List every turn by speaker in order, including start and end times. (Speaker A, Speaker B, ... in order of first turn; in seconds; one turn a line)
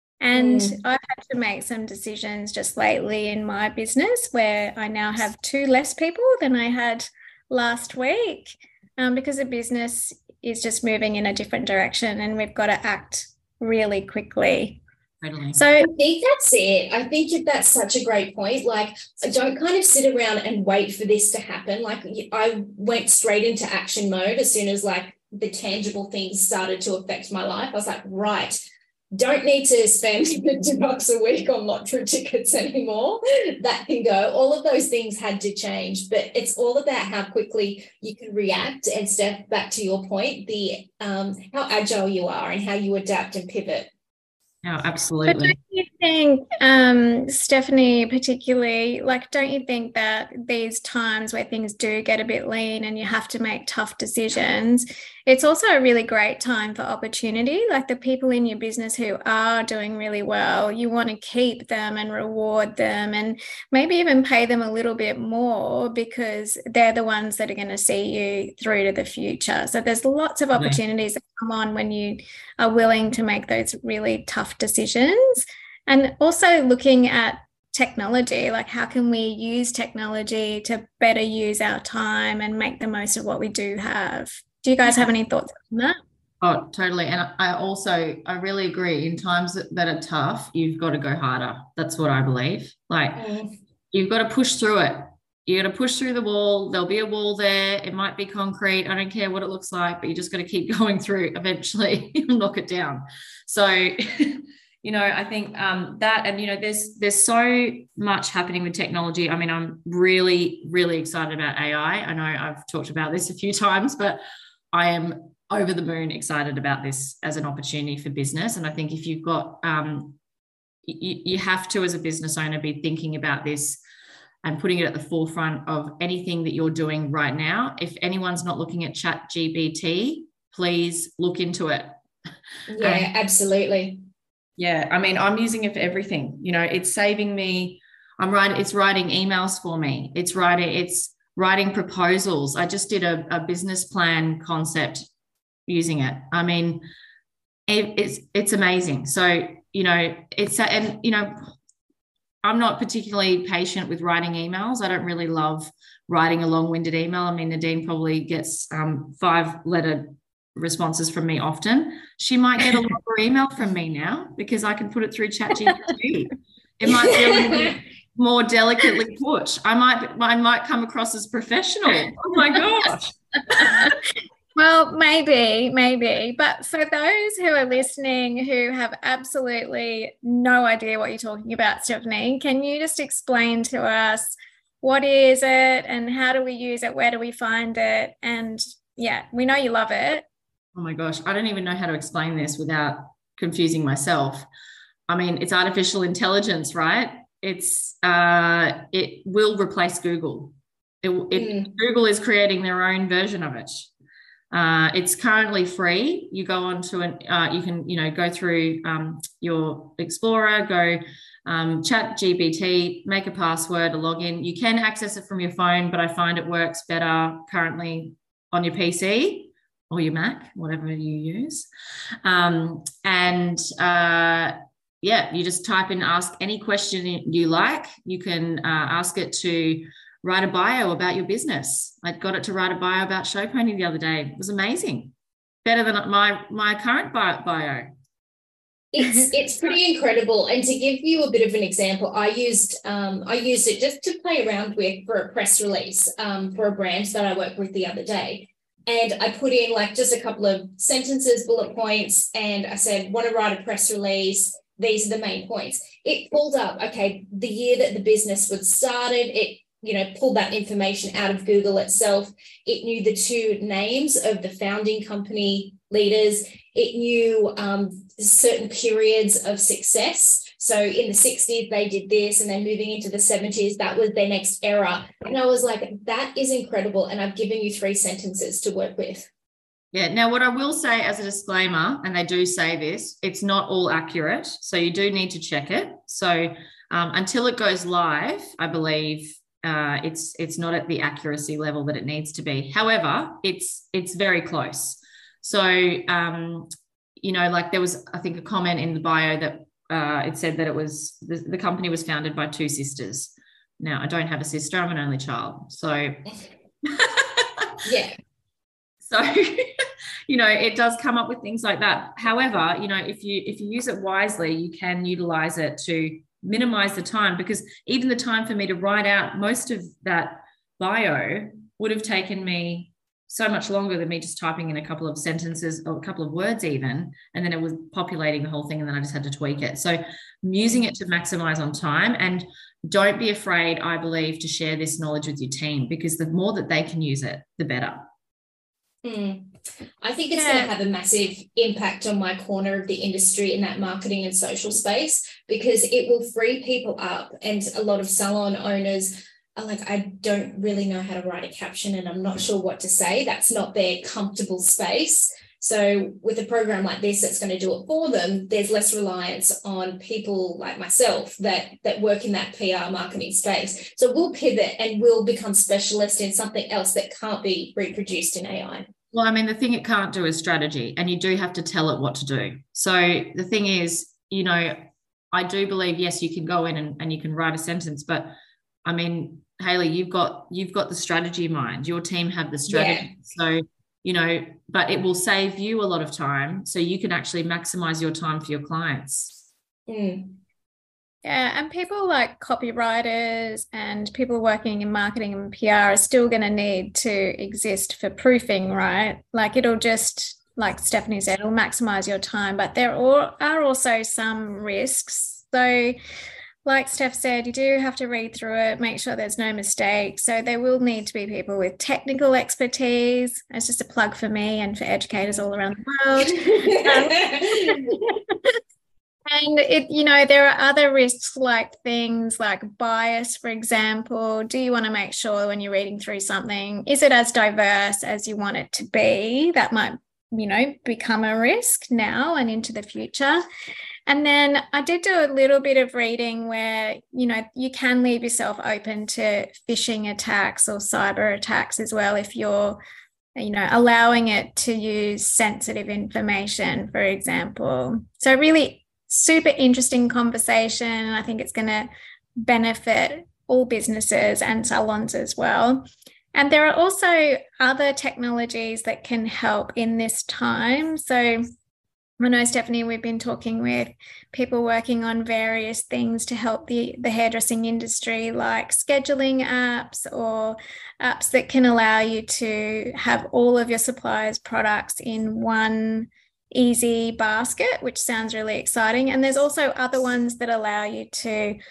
Speaker A: 0.2-14.8
Speaker B: 0.3-0.8
Speaker C: 15.2-15.6
Speaker A: 15.6-15.9
Speaker B: 15.8-28.6
Speaker B: 29.1-43.9
Speaker C: 44.6-45.5
Speaker A: 45.3-86.0
Speaker C: 86.4-93.2
Speaker B: 93.2-93.5
Speaker C: 93.9-114.2
Speaker C: 114.7-120.2
Speaker C: 120.9-123.8
Speaker C: 124.4-131.9
Speaker B: 132.7-134.0
Speaker C: 132.8-133.1
Speaker C: 134.6-145.1
Speaker C: 145.7-146.8
Speaker C: 147.7-151.5
Speaker C: 152.4-173.9
Speaker B: 167.1-167.8
Speaker A: 173.6-174.0
Speaker A: 174.6-190.3
Speaker C: 190.8-194.5
Speaker C: 195.1-203.9
Speaker B: 201.3-201.7
Speaker C: 204.5-221.7
Speaker C: 222.2-235.1
Speaker C: 235.7-237.9
Speaker B: 238.9-279.3
Speaker C: 279.9-296.7
Speaker C: 297.2-306.2
Speaker C: 306.8-307.8
Speaker B: 307.8-308.2
Speaker C: 309.0-309.7
Speaker C: 310.3-338.1
Speaker B: 339.0-368.9
Speaker A: 340.3-340.7
Speaker C: 369.1-378.3
Speaker C: 378.9-389.4
Speaker B: 382.7-383.1
Speaker B: 389.9-390.4
Speaker A: 391.2-406.0
Speaker A: 406.6-418.0
Speaker B: 416.2-418.0
Speaker A: 419.3-433.4
Speaker A: 434.1-442.8
Speaker A: 443.4-461.5
Speaker A: 462.2-481.6